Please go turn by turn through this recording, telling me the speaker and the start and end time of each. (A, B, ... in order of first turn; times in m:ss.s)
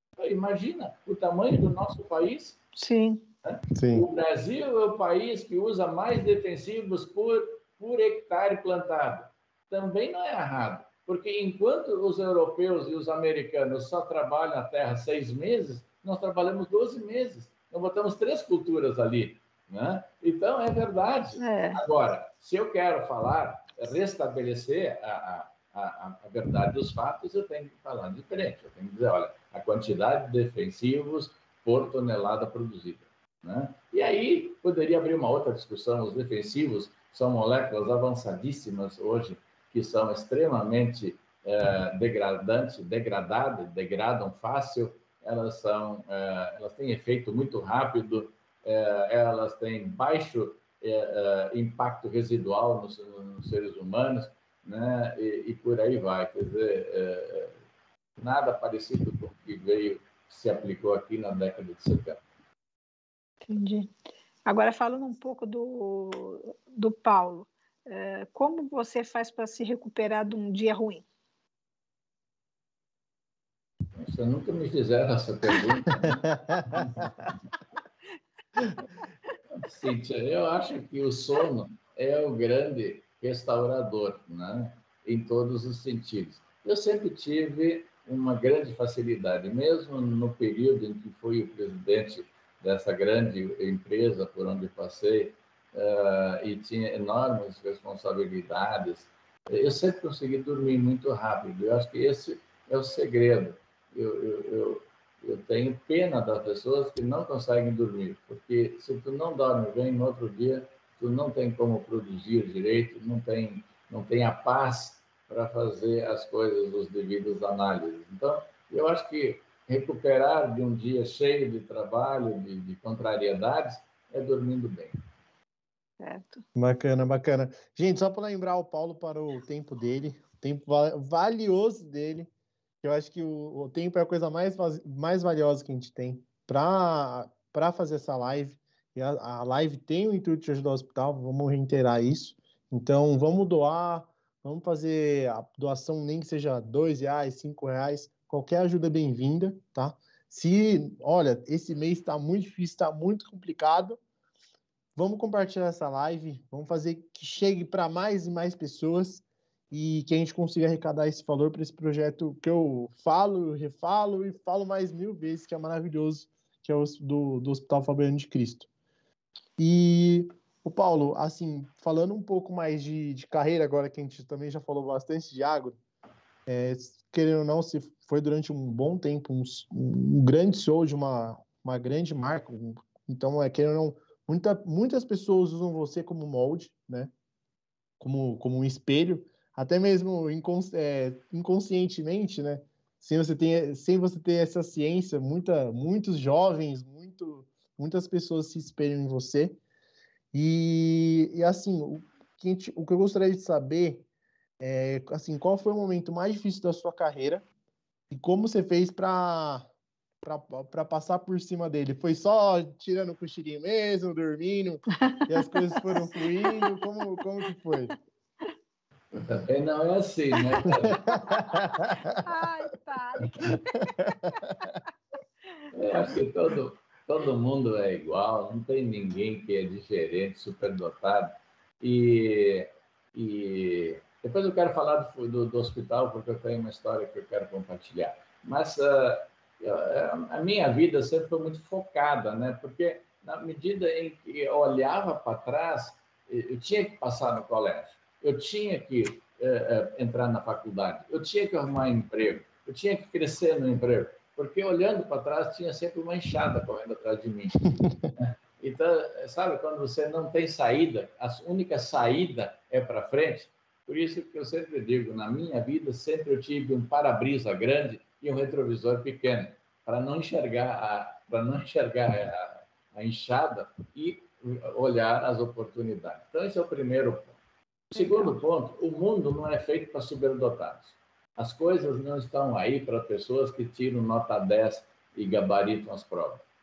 0:00.2-0:02.6 A
0:02.8-0:03.2 B
0:03.4-0:57.5 A
0:03.7-0:04.1 C
0:21.4-0:21.8 B
0:58.2-1:02.2 A
1:03.5-1:03.9 B
1:04.5-1:11.1 B
1:14.0-1:17.1 A
1:16.0-1:17.3 C
1:19.5-2:05.0 A
2:06.0-2:06.4 B
2:06.6-2:12.3 C
2:12.8-2:34.0 C
2:35.0-2:48.7 C
2:49.6-2:55.8 C
2:56.5-3:07.1 C
3:08.0-3:19.6 C
3:20.3-3:24.1 C
3:24.6-3:27.5 C
3:28.1-3:29.7 C
3:30.2-3:37.9 C
3:34.9-3:36.8 B
3:39.1-3:41.4 A
3:40.3-3:44.6 B
3:40.7-3:42.2 C
3:43.4-3:44.8 C
3:45.6-3:46.1 B
3:45.7-4:37.4 A
4:37.9-4:46.4 A
4:38.0-4:38.3 B